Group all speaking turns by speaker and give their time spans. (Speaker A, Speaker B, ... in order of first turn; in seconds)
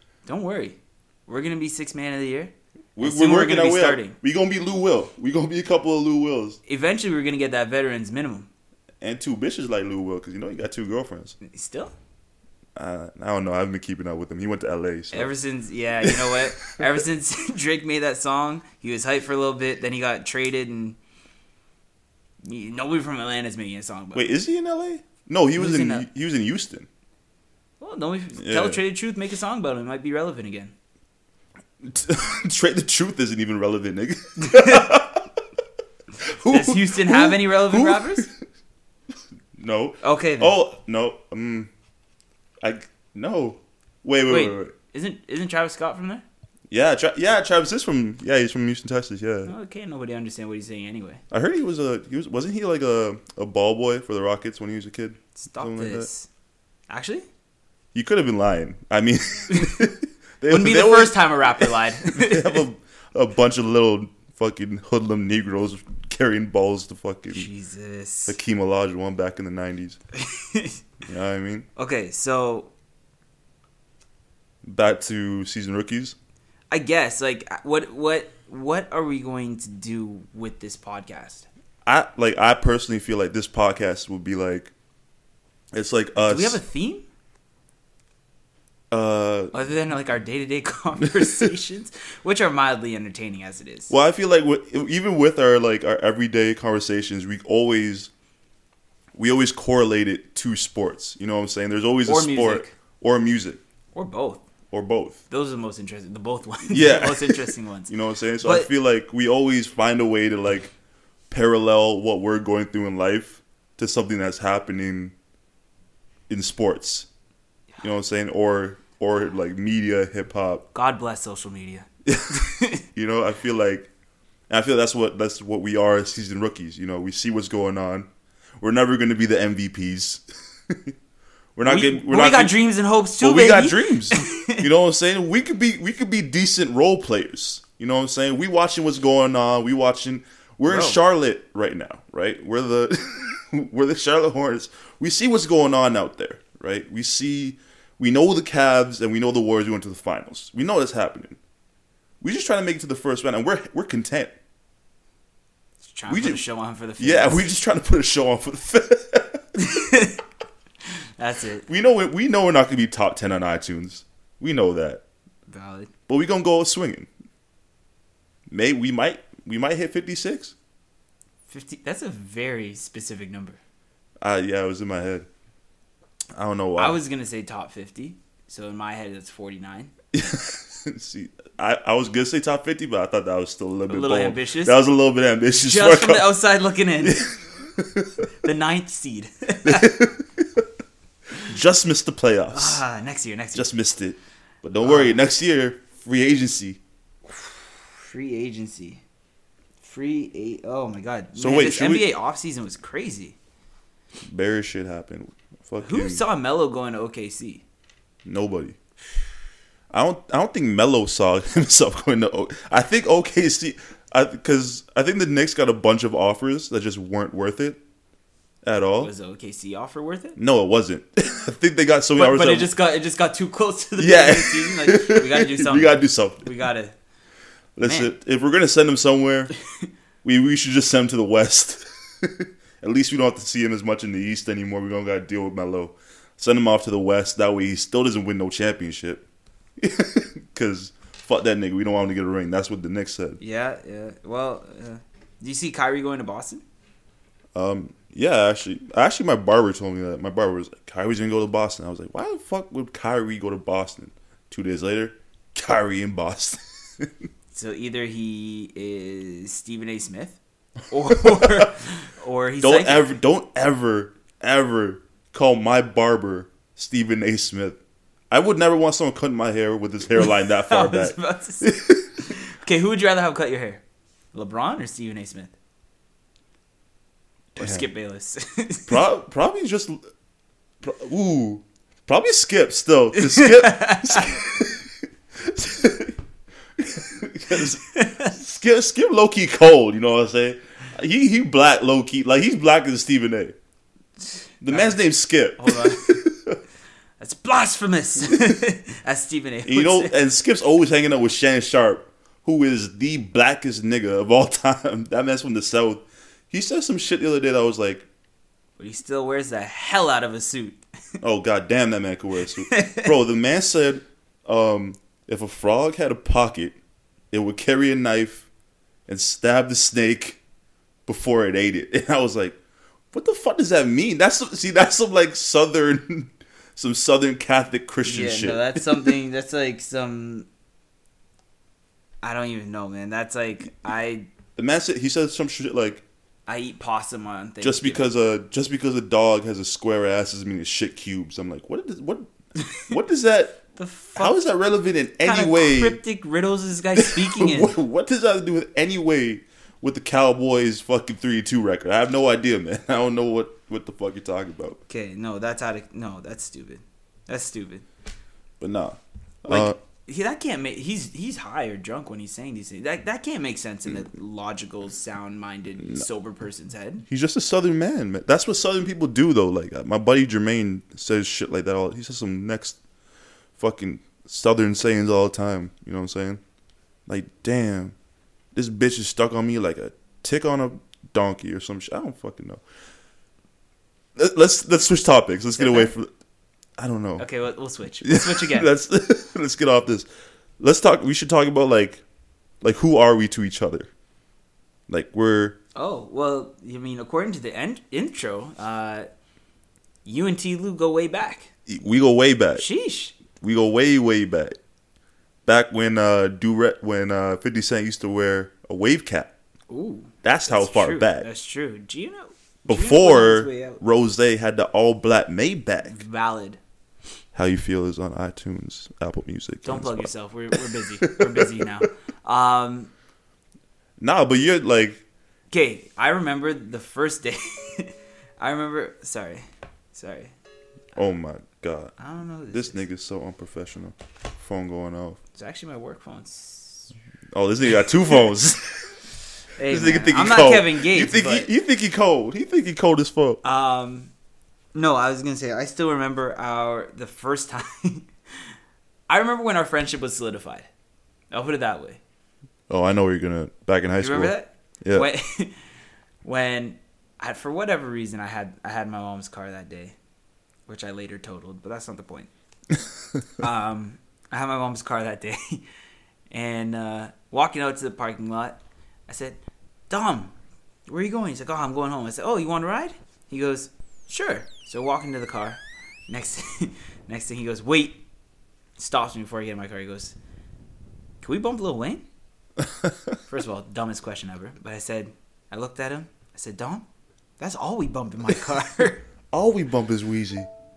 Speaker A: 0.3-4.2, 6.7-8.5, 11.4-11.9, 15.1-21.0, 22.4-24.3, 25.6-26.1, 27.8-30.7, 34.4-35.0, 36.5-38.3, 40.0-40.5, 44.3-46.2, 49.5-51.2, 55.4-56.3, 56.9-57.3, 59.5-59.8, 60.5-62.6, 67.3-68.4, 70.2-70.8, 71.8-72.7, 76.7-81.5, 86.2-87.0, 89.5-93.9, 102.1-102.8, 103.9-104.4, 105.3-108.7, 120.7-122.8, 131.6-134.7, 140.7-141.0, 155.8-157.5, 159.6-160.2, 161.2-161.7, 165.5-165.9, 171.5-173.6, 176.8-179.9, 183.9-184.8, 185.6-187.2, 188.4-190.0, 192.5-193.7, 194.8-195.2, 197.4-199.0, 199.8-203.4, 205.8-207.6, 219.0-220.4, 222.2-227.0, 227.8-228.1, 243.4-246.6, 257.5-260.4, 260.9-263.2, 270.1-273.8, 274.3-275.5, 277.6-279.1, 283.2-284.4, 287.6-288.3, 294.7-295.0, 295.6-296.2, 297.2-300.1, 308.8-310.8, 312.6-313.1, 328.0-330.5, 332.2-334.3, 336.5-338.1, 342.6-342.9, 343.8-344.4, 345.2-347.8, 354.9-357.9, 359.5-367.1, 385.6-385.9, 387.2-388.7, 395.8-399.1, 400.1-401.5, 402.6-403.2, 409.7-413.8, 415.8-416.6, 419.6-422.9, 425.5-430.3, 432.0-432.8, 435.4-436.9, 439.6-441.5, 443.4-444.1, 444.7-448.1, 449.1-450.7, 451.3-452.0, 454.0-455.6, 456.2-460.0, 460.7-462.3, 463.4-465.6, 466.3-469.4, 469.9-470.3, 470.9-478.0, 478.8-480.2, 481.2-482.1, 483.3-486.9, 487.4-489.0
Speaker B: 3.0-6.6, 9.0-11.4, 12.8-15.3, 16.0-16.7, 24.1-26.9, 28.4-28.8, 31.8-35.3, 36.2-38.3, 39.6-41.7, 42.6-44.7, 46.7-49.5, 51.3-56.1, 57.9-67.5, 68.3-70.0, 71.0-71.7, 74.7-76.2, 81.8-84.7, 85.7-86.6, 88.9-89.5, 91.0-91.5, 93.9-98.1, 99.2-103.6, 104.7-105.2, 106.7-110.7, 111.3-115.2, 116.3-117.1, 117.8-120.7, 122.1-123.9, 124.5-128.1, 128.6-130.9, 131.6-132.6, 133.2-151.4, 152.2-154.3, 156.1-156.4, 157.0-159.5, 161.7-165.0, 166.1-167.1, 168.5-170.5, 174.2-175.3, 176.3-177.0, 180.1-186.3, 187.0-188.3, 189.7-190.3, 191.4-192.8, 193.6-196.8, 201.4-202.1, 204.3-206.2, 208.2-208.8, 209.9-217.8, 218.6-219.1, 220.4-222.7, 224.0-226.5, 227.8-229.5, 230.2-239.2, 239.8-243.4, 247.6-257.1, 261.1-261.7, 262.6-267.8, 268.3-272.1, 277.6-277.9, 278.9-280.0, 280.8-286.2, 286.8-293.6, 294.6-296.6, 299.7-308.1, 311.2-316.8, 317.3-318.5, 319.1-320.4, 321.1-322.6, 323.1-329.2, 334.6-336.0, 337.6-342.3, 342.8-343.6, 344.2-346.0, 347.0-354.8, 358.6-359.8, 367.1-372.8, 373.6-376.4, 377.1-377.9, 378.5-382.6, 384.2-386.1, 386.8-387.2, 388.0-390.1, 390.6-392.0, 392.6-393.9, 394.9-395.6, 401.7-402.6, 403.4-404.6, 405.5-409.3, 410.2-411.3, 412.7-416.0, 417.4-421.9, 424.0-425.0, 431.0-431.9, 432.5-435.2, 437.3-439.0, 439.7-443.4, 452.7-455.1, 489.3-490.5